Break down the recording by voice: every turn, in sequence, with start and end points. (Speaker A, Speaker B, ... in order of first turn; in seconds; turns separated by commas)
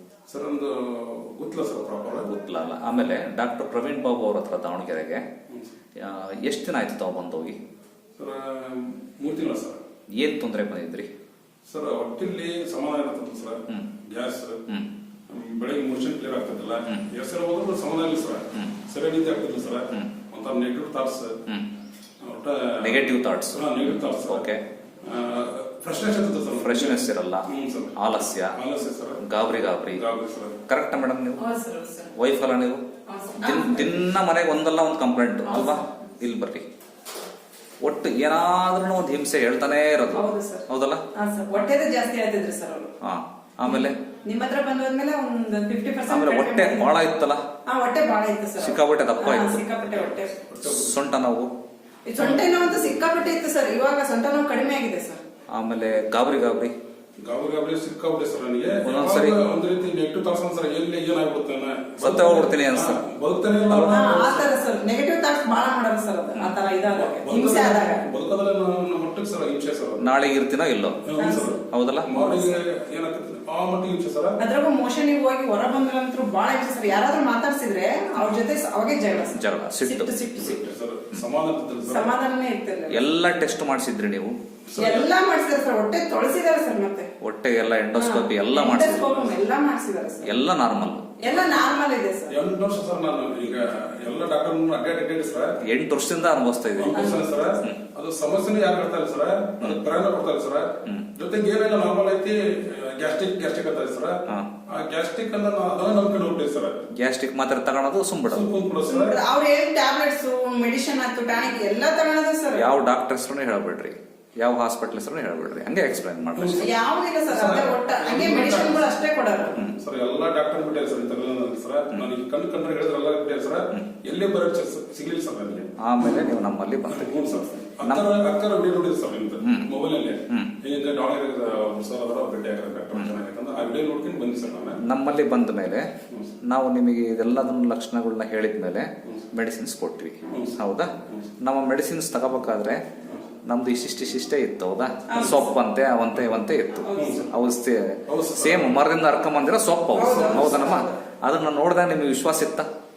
Speaker A: 0.3-2.3, Speaker B: 2.2-5.2, Speaker B: 6.0-7.6, Speaker A: 8.2-9.8, Speaker B: 10.1-11.1, Speaker A: 11.7-14.7, Speaker A: 15.3-21.4, Speaker A: 22.2-24.5, Speaker B: 22.8-24.6, Speaker A: 25.0-29.2, Speaker B: 26.5-28.6, Speaker B: 29.2-30.0, Speaker A: 29.9-30.6, Speaker B: 30.6-31.4, Speaker C: 31.4-32.1, Speaker B: 32.1-32.8, Speaker C: 33.1-34.0, Speaker B: 33.4-36.6, Speaker C: 35.5-35.9, Speaker B: 37.8-41.0, Speaker C: 40.1-42.9, Speaker B: 43.0-44.0, Speaker C: 43.6-47.0, Speaker B: 46.1-47.4, Speaker C: 47.7-50.4, Speaker B: 48.6-49.6, Speaker A: 50.4-51.0, Speaker B: 50.6-51.5, Speaker C: 52.1-55.2, Speaker A: 52.2-52.8, Speaker B: 55.5-56.7, Speaker A: 57.2-64.5, Speaker B: 58.8-59.4, Speaker B: 62.0-63.0, Speaker B: 63.7-64.0, Speaker C: 63.8-68.0, Speaker A: 66.8-70.1, Speaker B: 70.0-71.1, Speaker A: 71.0-74.4, Speaker C: 71.2-71.6, Speaker B: 71.6-72.1, Speaker C: 72.2-72.5, Speaker C: 74.4-80.7, Speaker B: 79.3-80.1, Speaker A: 80.4-82.1, Speaker C: 81.9-83.0, Speaker B: 82.9-84.3, Speaker A: 84.7-85.1, Speaker C: 84.7-87.1, Speaker B: 87.2-89.2, Speaker C: 87.9-90.3, Speaker B: 90.2-91.1, Speaker C: 91.2-92.3, Speaker A: 91.3-91.5, Speaker A: 92.3-95.6, Speaker B: 95.6-97.8, Speaker A: 96.8-104.2, Speaker C: 96.9-97.3, Speaker A: 104.7-106.9, Speaker B: 107.0-108.5, Speaker A: 108.3-109.2, Speaker C: 108.8-112.7, Speaker B: 112.5-116.7, Speaker A: 116.3-116.8, Speaker C: 116.6-119.6, Speaker A: 117.3-119.0, Speaker A: 119.6-126.4, Speaker B: 125.8-127.2, Speaker A: 126.9-134.8, Speaker B: 127.8-128.1, Speaker B: 129.4-129.7, Speaker B: 130.3-130.5, Speaker B: 134.8-135.9, Speaker A: 136.1-136.3, Speaker B: 136.4-142.8, Speaker A: 140.3-141.3, Speaker B: 143.4-152.7, Speaker C: 145.1-145.4, Speaker C: 146.8-147.2, Speaker A: 146.9-147.3, Speaker A: 148.1-148.8, Speaker A: 149.9-150.8, Speaker C: 149.9-150.9